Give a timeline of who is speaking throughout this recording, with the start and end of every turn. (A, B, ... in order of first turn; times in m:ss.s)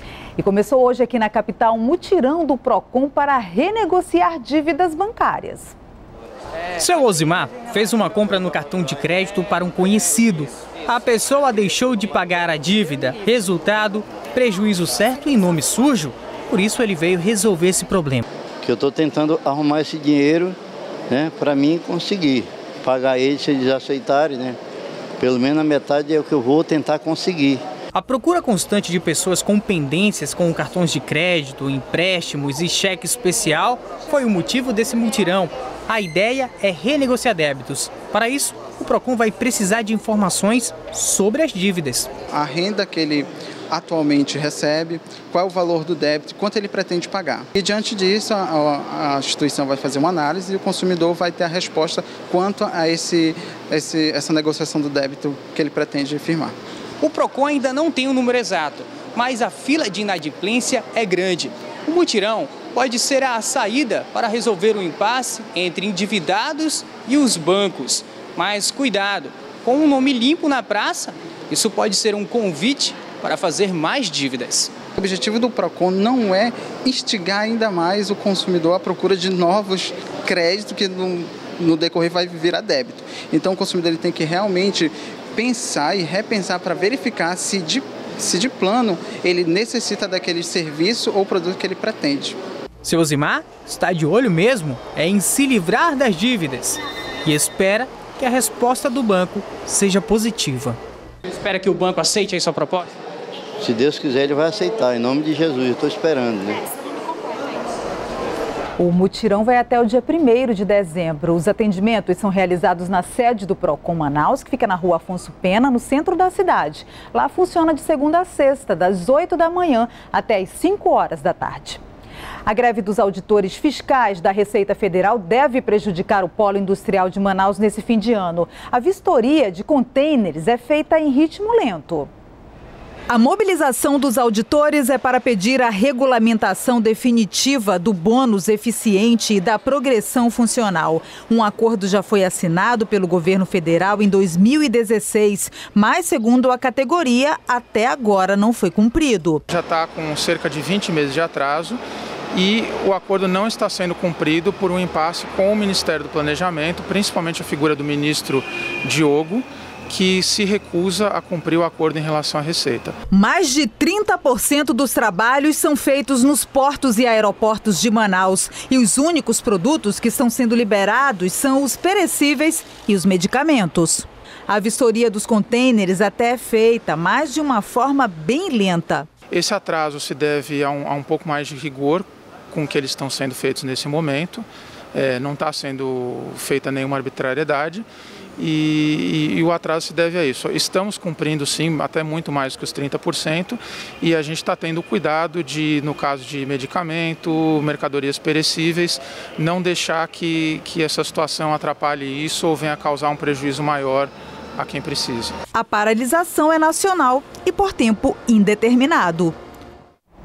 0:00.4-0:05.7 A
0:06.7-0:18.2 B
0:18.6-0:20.6 C
0:21.1-0:24.6 C
0:25.2-0:27.6 C
0:27.9-0:42.1 B
0:42.3-0:56.5 D
0:57.0-1:14.7 B
1:15.0-1:32.4 D
1:32.8-1:42.9 B
1:43.6-1:46.6 C
1:48.8-2:01.8 A
2:02.4-2:12.1 A
2:13.1-2:29.4 A
2:29.5-2:31.8 E
2:32.3-2:42.9 E
2:43.1-2:59.1 A
2:59.3-3:07.8 E
3:08.4-3:25.4 E
3:25.5-3:29.3 A